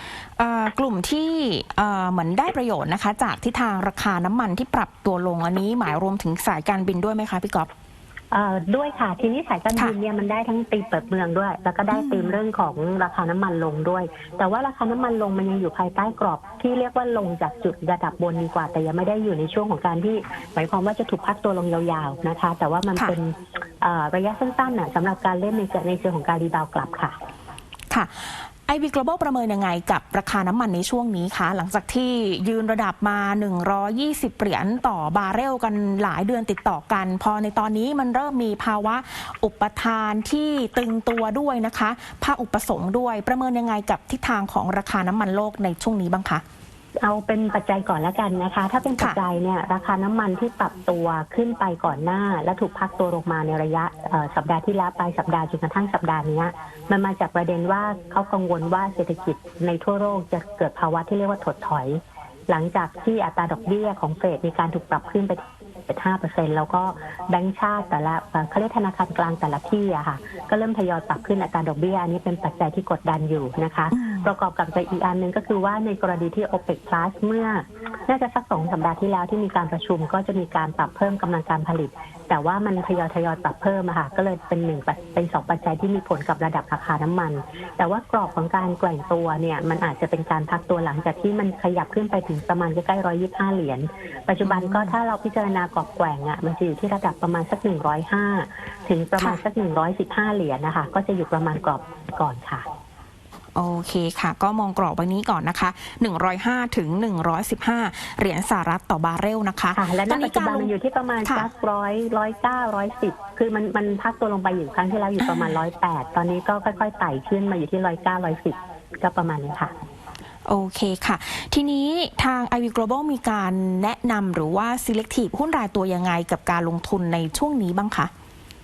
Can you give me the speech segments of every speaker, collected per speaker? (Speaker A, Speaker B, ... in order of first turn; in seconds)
Speaker A: 0.4-7.7, 11.9-12.4, 27.9-46.4, 73.9-74.3, 94.4-94.9, 103.5-110.7, 115.2-115.5, 120.5-128.1
Speaker B: 8.3-27.1, 47.0-102.6, 109.7-119.7